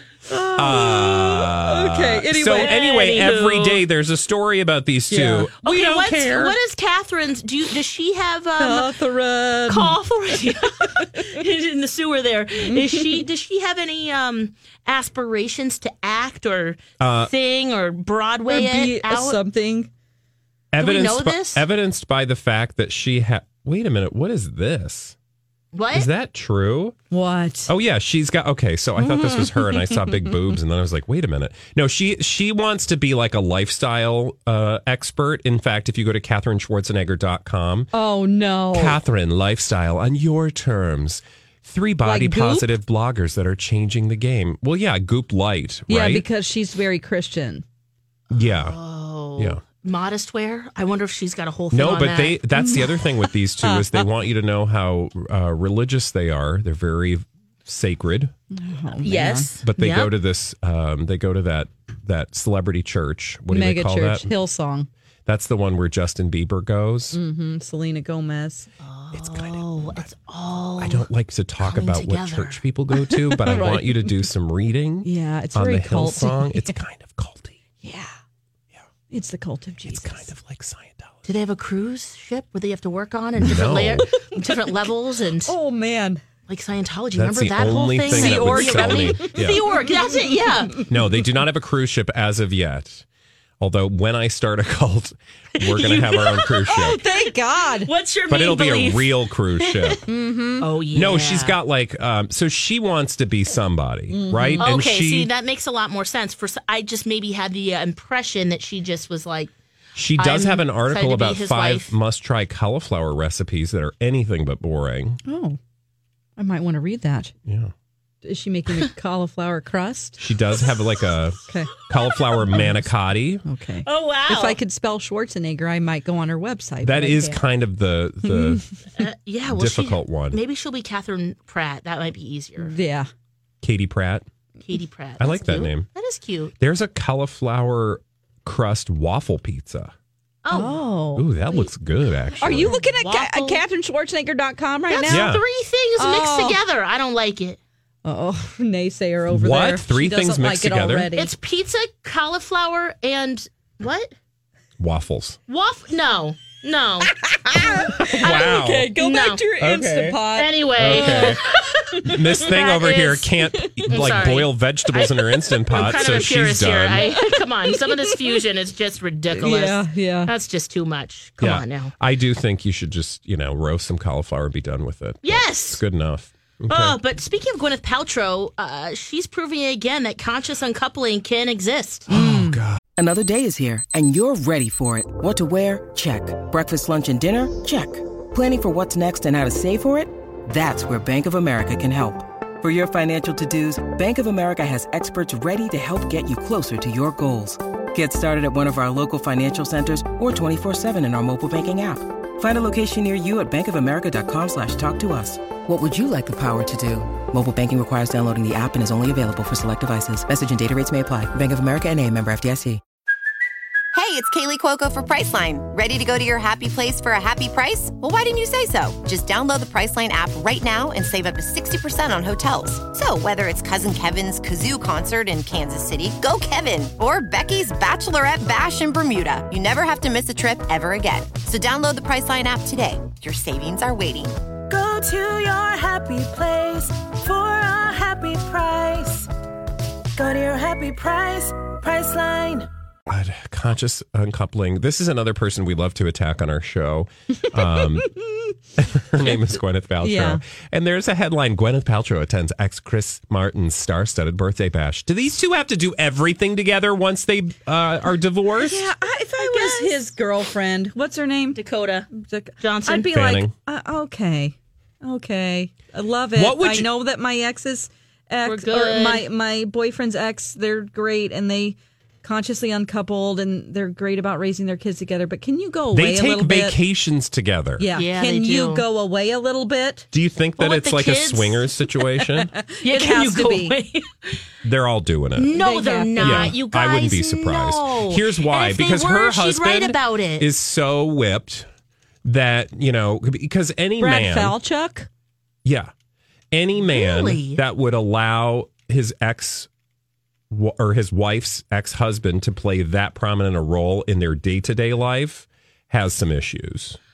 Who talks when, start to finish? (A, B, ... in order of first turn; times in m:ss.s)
0:00.3-0:02.9 A
0:00.6-0:06.6 B
0:02.5-0:03.8 C
0:05.1-0:05.5 A
0:05.6-0:09.0 C
0:08.6-0:10.0 A
0:09.7-0:19.4 C
0:12.7-0:13.2 A
0:17.0-0:17.3 B
0:18.5-0:19.9 A
0:20.7-0:25.2 B
0:20.8-0:21.6 C
0:25.7-0:26.1 C
0:25.9-0:27.0 B
0:27.1-0:27.7 A
0:27.7-0:37.9 B
0:29.0-0:30.1 A
0:37.9-0:39.0 A
0:38.7-0:46.2 B
0:42.0-0:42.7 A
0:45.9-0:47.6 A
0:48.3-0:48.8 B
0:48.3-0:52.4 C
0:51.7-0:58.3 B
0:52.6-0:53.0 A
0:53.6-0:54.0 A
0:58.5-0:59.5 A
0:59.0-1:00.1 C
0:59.6-1:04.3 B
1:03.5-1:04.9 A
1:05.3-1:07.2 B
1:07.1-1:08.7 A
1:08.8-1:11.1 C
1:09.2-1:10.0 B
1:10.8-1:17.6 B
1:11.6-1:12.6 C
1:13.1-1:14.1 A
1:15.0-1:16.8 A
1:17.8-1:18.1 A
1:19.1-1:20.3 A
1:19.9-1:21.2 B
1:21.2-1:25.5 C
1:23.4-1:24.1 B
1:25.4-1:26.2 A
1:26.5-1:30.9 C
1:27.2-1:29.7 B
1:28.1-1:30.2 A
1:30.9-1:33.0 B
1:33.6-1:37.0 B
1:35.6-1:37.2 C
1:36.7-1:37.9 A
1:37.8-1:40.0 C
1:38.3-1:40.0 B
1:40.1-1:40.7 A
1:40.6-1:41.6 C
1:40.9-1:45.3 B
1:44.1-1:44.7 A
1:44.6-1:49.5 C
1:50.0-1:55.2 B
1:50.2-1:51.9 C
1:55.2-1:55.6 A
1:56.4-1:57.3 A
1:57.4-1:57.7 B
1:58.2-2:00.2 A
2:00.2-2:03.4 B
2:02.5-2:02.9 A
2:03.4-2:07.4 A
2:03.8-2:04.6 C
2:06.8-2:08.6 B
2:08.2-2:08.6 A
2:09.0-2:12.7 C
2:09.5-2:10.4 B
2:12.6-2:13.1 A
2:13.6-2:14.3 B
2:14.7-2:16.5 C
2:15.2-2:15.9 B
2:16.6-2:19.9 B
2:20.4-2:20.8 C
2:20.5-2:21.3 A
2:21.2-2:22.7 B
2:22.4-2:25.3 A
2:22.6-2:23.6 C
2:24.9-2:27.6 C
2:25.1-2:25.4 B
2:26.0-2:26.6 A
2:28.0-2:31.3 A
2:29.3-2:31.1 B
2:31.2-2:34.1 C
2:34.8-2:35.4 B
2:35.5-2:37.1 C
2:37.3-2:42.2 A
2:37.9-2:39.0 B
2:38.3-2:39.7 C
2:39.6-2:40.2 B
2:40.3-2:41.4 C
2:40.8-2:41.4 B
2:42.0-2:47.1 B
2:42.4-2:43.3 C
2:43.9-2:51.9 C
2:47.1-2:48.2 A
2:49.3-2:50.3 A
2:51.4-2:57.0 B
2:55.2-2:55.8 C
2:56.7-3:02.1 C
3:02.1-3:02.6 A
3:02.1-3:02.8 B
3:03.0-3:32.8 D
3:33.9-3:54.4 E
3:54.7-3:59.3 F
4:00.2-4:02.7 F
4:03.1-4:08.1 B
4:07.6-4:08.5 A
4:08.8-4:18.9 B
4:10.0-4:10.4 A
4:18.6-4:21.6 A
4:19.4-4:20.1 C
4:21.6-4:22.1 C
4:22.1-4:36.8 A
4:22.6-4:23.1 C
4:23.1-4:23.5 B
4:26.4-4:26.9 B
4:28.4-4:29.3 C
4:35.9-4:37.8 B
4:37.8-4:40.1 A
4:38.0-4:38.8 C
4:40.1-4:42.5 B
4:40.6-4:41.7 C
4:42.4-4:43.8 A
4:42.8-4:44.4 C
4:44.6-4:45.6 B
4:45.4-4:50.5 C
4:45.6-4:46.6 A
4:46.2-4:51.7 B
4:52.2-4:54.6 B
4:54.0-4:55.1 A
4:55.6-4:55.9 B
4:56.5-4:59.7 B
4:56.9-4:57.6 C
5:00.5-5:07.0 B